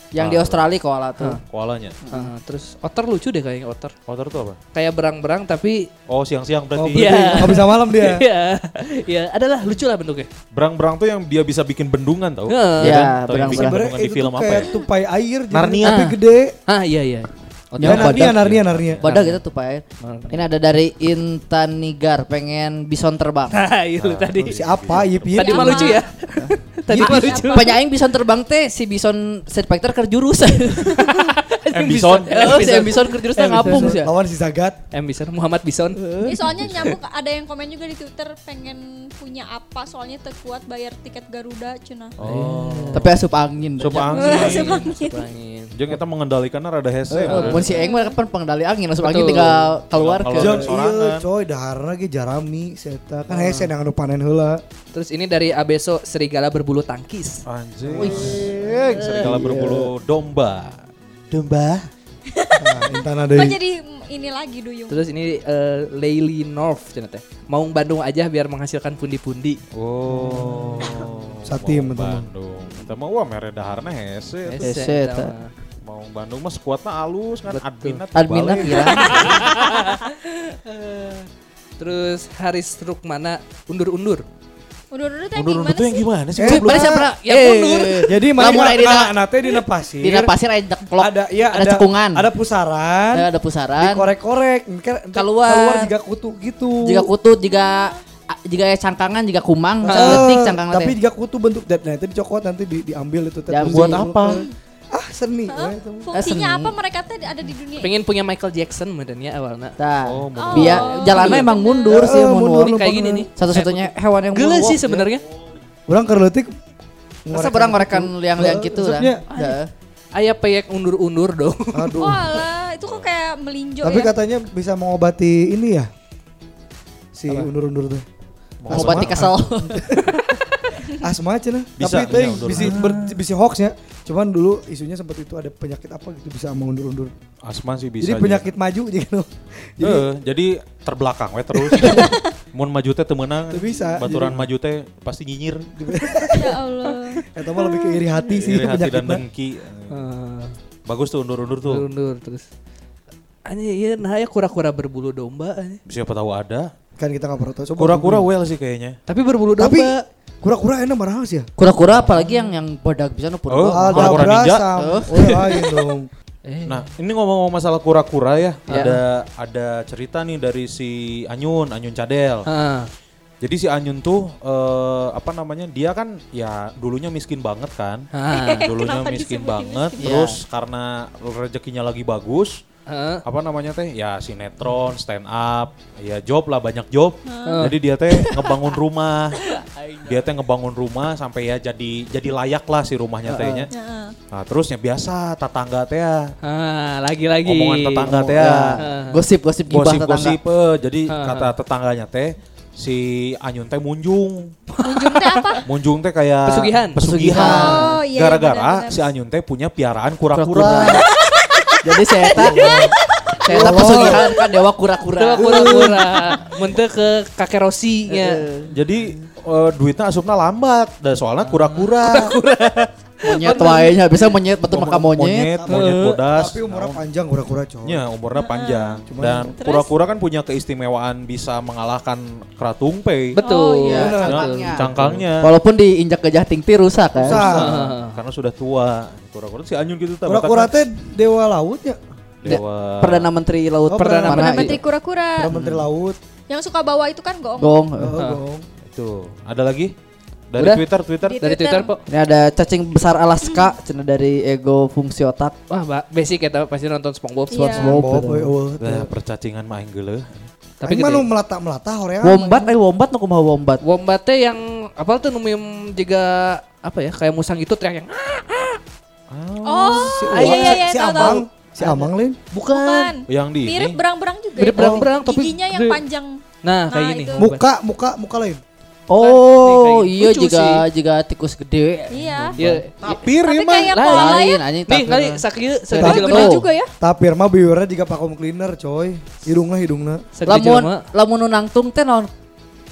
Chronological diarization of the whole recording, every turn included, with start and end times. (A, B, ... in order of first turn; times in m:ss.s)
0:00.1-0:01.4 A
0:00.2-0:00.7 B
0:01.5-0:02.0 B
0:02.0-0:02.3 A
0:02.1-0:03.9 C
0:04.1-0:04.6 B
0:04.7-0:05.9 C
0:06.1-0:07.6 B
0:06.8-0:08.2 D
0:06.9-0:10.3 C
0:10.5-0:14.7 B
0:12.5-0:13.2 C
0:12.8-0:13.8 A
0:13.5-0:16.5 D
0:15.5-0:16.0 B
0:15.8-0:18.2 C
0:17.8-0:18.5 A
0:17.8-0:19.0 D
0:17.9-0:19.0 B
0:19.0-0:23.6 A
0:19.0-0:19.4 C
0:20.0-0:20.4 C
0:23.5-0:24.6 C
0:24.0-0:25.6 B
0:24.4-0:26.0 D
0:25.3-0:27.8 C
0:25.4-0:26.0 E
0:26.4-0:31.2 A
0:26.9-0:27.4 D
0:27.0-0:27.8 E
0:31.0-0:33.9 C
0:31.7-0:32.6 B
0:32.3-0:34.1 A
0:33.4-0:34.8 D
0:34.9-0:36.9 C
0:36.3-0:42.1 E
0:36.5-0:36.9 B
0:42.2-0:43.2 B
0:42.2-0:43.1 C
0:42.9-0:44.6 A
0:43.8-0:44.9 B
0:44.1-0:45.2 E
0:44.2-0:46.0 C
0:45.8-0:47.8 B
0:47.2-0:50.7 A
0:47.3-0:47.7 C
0:47.6-0:48.2 E
0:49.0-0:49.7 C
0:49.9-0:51.3 B
0:50.4-0:54.6 D
0:53.3-0:53.7 C
0:54.9-0:57.4 C
0:57.5-1:01.9 B
0:57.8-0:58.7 D
0:58.0-0:58.7 A
0:59.0-0:59.4 C
0:59.2-0:59.9 A
1:02.4-1:05.0 E
1:02.6-1:03.6 D
1:04.9-1:09.6 C
1:09.7-1:14.7 B
1:10.2-1:12.3 D
1:10.8-1:11.3 C
1:14.5-1:15.5 C
1:14.6-1:15.3 A
1:15.8-1:19.5 B
1:17.5-1:18.0 C
1:18.1-1:19.4 A
1:18.7-1:21.3 C
1:19.2-1:19.5 E
1:21.8-1:24.2 C
1:24.9-1:26.1 E
1:25.4-1:27.0 B
1:26.4-1:27.1 D
1:26.5-1:29.2 A
1:26.6-1:28.2 C
1:28.0-1:30.3 D
1:30.0-1:32.3 A
1:31.0-1:33.3 D
1:33.1-1:34.1 A
1:33.8-1:37.1 D
1:35.2-1:35.9 A
1:36.8-1:41.0 A
1:37.4-1:38.0 E
1:39.8-1:40.3 C
1:39.8-1:46.1 D
1:43.5-1:44.2 A
1:43.7-1:44.4 B
1:45.5-1:47.9 E
1:46.1-1:46.8 A
1:47.8-1:49.8 C
1:49.8-1:52.8 A
1:50.1-1:51.0 B
1:50.4-1:52.1 E
1:50.6-1:51.6 C
1:51.9-1:53.3 D
1:52.6-1:55.2 C
1:53.4-1:54.8 A
1:55.9-1:56.5 D
1:57.3-1:59.2 D
1:57.3-1:59.7 A
1:59.3-1:59.6 C
2:00.2-2:02.1 C
2:01.7-2:02.4 D
2:02.0-2:04.1 E
2:02.8-2:03.1 B
2:03.8-2:05.9 D
2:07.2-2:08.0 D
2:08.6-2:09.5 B
2:08.7-2:10.0 D
2:08.7-2:10.1 A
2:10.9-2:17.1 D
2:11.8-2:12.8 B
2:12.5-2:13.1 C
2:17.4-2:18.5 B
2:18.0-2:20.1 D
2:19.8-2:25.7 B
2:21.8-2:22.2 E
2:23.5-2:24.4 D
2:25.8-2:26.6 D
2:26.4-2:27.2 E
2:27.3-2:29.2 D
2:28.3-2:30.0 B
2:29.9-2:30.6 C
2:30.9-2:31.8 B
2:31.6-2:32.4 C
2:33.5-2:35.8 C
2:35.9-2:36.7 B
2:37.0-2:38.3 D
2:37.8-2:39.0 B
2:39.1-2:40.0 C
2:39.6-2:41.5 D
2:41.6-2:45.6 A
2:41.9-2:42.5 C
2:43.5-2:44.7 B
2:43.7-2:46.1 D
2:46.4-2:46.9 C
2:46.7-2:52.5 B
2:48.7-2:49.0 C
2:52.5-2:52.9 C
2:53.4-3:02.6 B
2:58.1-2:58.7 C
2:58.3-3:00.1 E
3:00.0-3:00.4 A
3:02.9-3:03.2 C
3:03.2-3:09.4 B
3:07.3-3:07.6 E
3:07.5-3:07.8 C
3:10.0-3:13.7 B
3:13.3-3:13.7 A
3:13.7-3:14.1 E
3:14.3-3:16.3 B
3:16.4-3:18.1 C
3:17.4-3:18.8 B
3:18.0-3:20.4 A
3:18.8-3:19.2 C
3:19.7-3:24.5 B
3:21.1-3:21.5 C
3:24.7-3:25.6 C
3:24.8-3:25.6 E
3:25.6-3:31.0 B
3:26.5-3:27.0 C
3:27.0-3:28.0 A
3:27.4-3:29.0 E
3:30.3-3:31.1 A
3:31.2-3:33.2 E
3:31.8-3:32.9 A
3:32.3-3:32.9 D
3:33.4-3:36.2 A
3:33.5-3:34.3 D
3:34.1-3:34.4 E
3:35.2-3:38.4 C
3:38.1-3:38.8 A
3:38.7-3:42.4 B
3:41.4-3:43.9 C
3:43.2-3:45.5 A
3:44.7-3:47.0 B
3:45.6-3:48.0 D
3:45.7-3:46.2 C
3:47.8-3:53.4 B
3:48.3-3:49.0 E
3:49.1-3:49.6 D
3:49.6-3:49.9 E
3:53.3-3:55.2 C
3:53.4-3:54.5 E
3:53.8-3:57.6 A
3:53.9-3:54.4 D
3:54.3-3:55.5 B
3:57.2-3:57.7 D
3:57.3-3:58.2 C
3:57.6-4:00.8 B
4:00.3-4:02.0 D
4:02.4-4:03.3 B
4:02.5-4:04.8 A
4:03.9-4:04.7 D
4:04.0-4:04.8 C
4:04.3-4:05.5 E
4:05.4-4:06.2 D
4:06.5-4:07.9 E
4:07.6-4:08.2 A
4:08.0-4:08.7 D
4:08.2-4:08.4 C
4:08.9-4:09.9 B
4:10.5-4:11.4 B
4:10.6-4:10.8 C
4:11.2-4:11.9 E
4:11.4-4:12.0 C
4:12.1-4:15.6 A
4:13.5-4:13.7 E
4:15.7-4:18.0 C
4:17.5-4:18.0 E
4:17.7-4:18.5 A
4:17.9-4:19.1 D
4:18.8-4:20.5 B
4:20.8-4:21.3 C
4:20.8-4:22.7 D
4:22.2-4:23.8 A
4:23.8-4:28.8 C
4:29.3-4:30.3 B
4:29.6-4:31.4 E
4:29.9-4:32.5 D
4:30.3-4:33.1 C
4:32.7-4:37.5 E
4:33.3-4:34.0 B
4:34.6-4:36.0 C
4:34.8-4:35.1 D
4:36.6-4:37.6 C
4:37.4-4:38.6 D
4:39.1-4:42.6 A
4:39.1-4:40.8 C
4:42.1-4:42.6 E
4:42.6-4:43.2 C
4:42.6-4:44.0 B
4:43.4-4:44.6 E
4:43.9-4:46.6 C
4:44.0-4:46.7 A
4:46.0-4:46.9 E
4:46.0-4:50.3 D
4:50.4-4:51.0 C
4:50.4-4:52.3 A